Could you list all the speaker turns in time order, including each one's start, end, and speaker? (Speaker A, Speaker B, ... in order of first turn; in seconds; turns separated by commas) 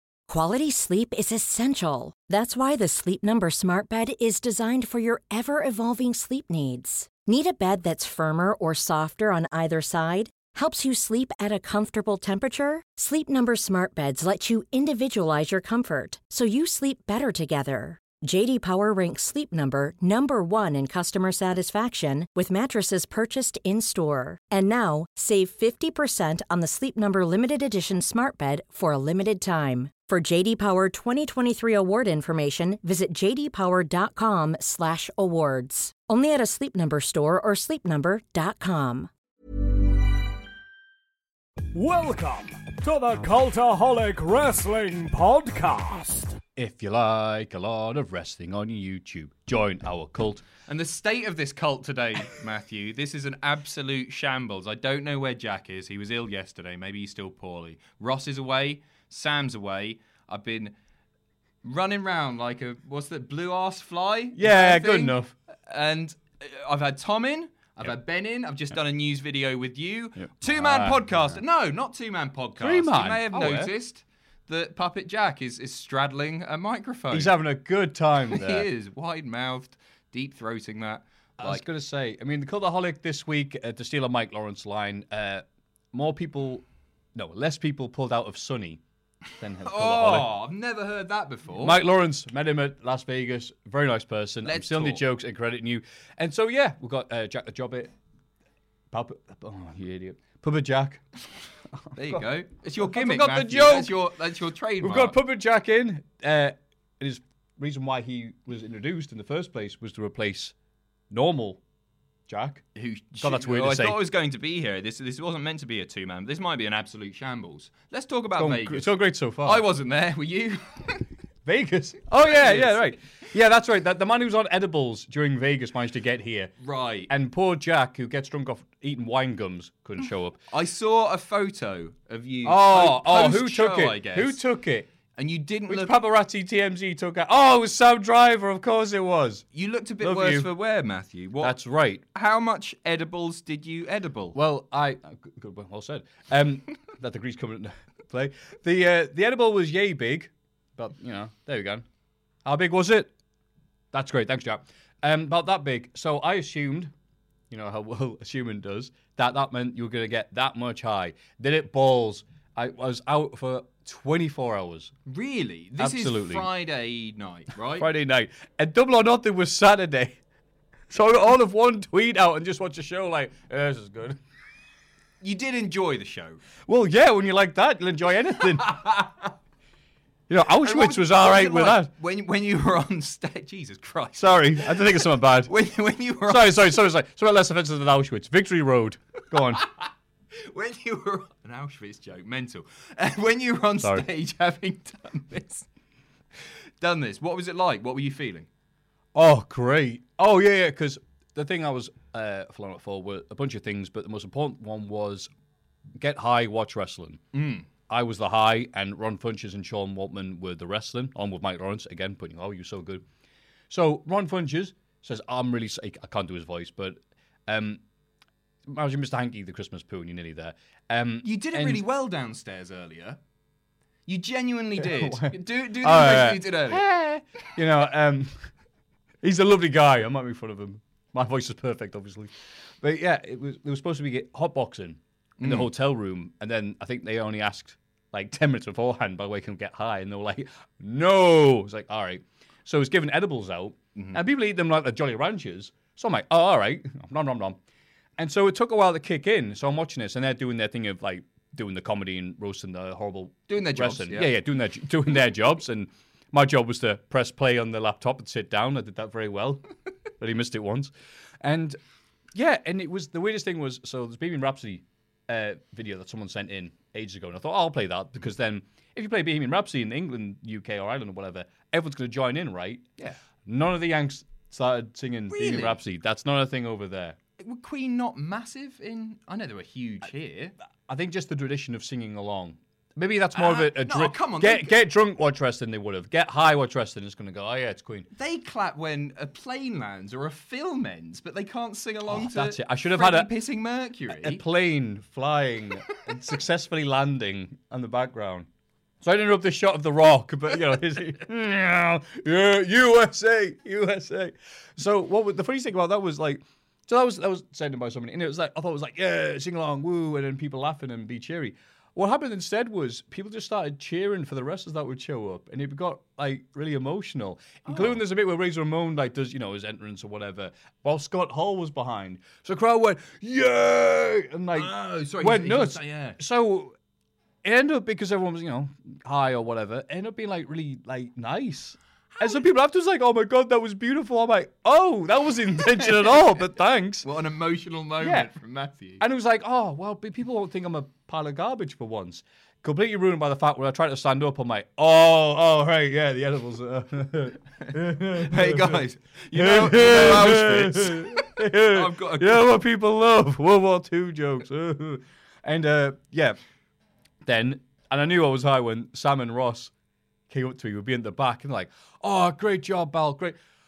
Speaker A: 0.3-39.1, Speaker B: 41.7-46.4, Speaker C: 46.6-50.4, Speaker D: 50.7-60.8, Speaker D: 61.6-77.4, Speaker C: 64.4-65.3, Speaker C: 70.2-71.4, Speaker C: 72.6-73.7, Speaker C: 77.1-78.7, Speaker D: 78.3-81.7, Speaker C: 81.4-86.6, Speaker C: 87.2-88.8, Speaker C: 89.3-90.3, Speaker D: 89.6-91.8, Speaker C: 91.6-97.9, Speaker D: 94.5-95.0, Speaker C: 98.9-101.0, Speaker C: 101.8-102.2, Speaker D: 102.0-105.2, Speaker C: 102.8-104.0, Speaker C: 104.8-110.5, Speaker C: 111.1-111.6, Speaker C: 112.3-112.7, Speaker D: 112.8-121.1, Speaker C: 113.2-114.0, Speaker C: 118.4-119.7, Speaker C: 121.5-126.5, Speaker D: 122.1-123.0, Speaker D: 126.6-127.1, Speaker C: 127.1-130.4, Speaker D: 130.5-134.4, Speaker C: 132.4-134.9, Speaker D: 135.2-136.0, Speaker C: 135.7-139.4, Speaker D: 139.5-141.6, Speaker C: 140.0-140.5, Speaker C: 141.4-142.0, Speaker D: 142.1-144.4, Speaker C: 144.3-151.8, Speaker C: 152.4-153.1, Speaker C: 153.9-156.9, Speaker C: 157.5-164.9, Speaker D: 165.1-167.9, Speaker C: 165.8-166.5, Speaker C: 167.8-170.2, Speaker C: 170.9-174.2, Speaker D: 175.2-176.4, Speaker C: 176.7-178.8, Speaker D: 178.4-179.3, Speaker C: 180.3-181.9, Speaker D: 180.6-186.8, Speaker C: 184.2-185.5, Speaker C: 186.3-189.7, Speaker D: 189.5-195.7, Speaker C: 193.8-194.1, Speaker D: 196.3-198.5, Speaker C: 199.2-205.3, Speaker C: 206.0-207.2, Speaker D: 207.3-207.7, Speaker C: 207.9-213.0, Speaker C: 213.7-217.8, Speaker C: 218.7-221.8, Speaker D: 221.2-223.2, Speaker D: 224.1-226.8, Speaker C: 224.8-228.5, Speaker C: 229.2-247.6, Speaker D: 235.4-235.7, Speaker D: 243.9-244.2, Speaker C: 248.2-261.8, Speaker D: 253.5-254.4, Speaker C: 262.4-277.2, Speaker D: 275.3-275.8, Speaker D: 277.4-280.5, Speaker C: 280.9-288.1, Speaker D: 283.3-284.8, Speaker D: 288.1-294.4, Speaker C: 292.1-293.3, Speaker C: 294.1-298.5, Speaker C: 299.0-326.8, Speaker D: 317.7-318.0, Speaker D: 324.6-326.2, Speaker C: 327.4-337.1, Speaker D: 335.8-336.3, Speaker D: 337.0-339.0, Speaker C: 338.0-338.3, Speaker C: 339.0-356.4, Speaker D: 347.6-352.5, Speaker C: 357.2-359.7, Speaker C: 360.3-363.4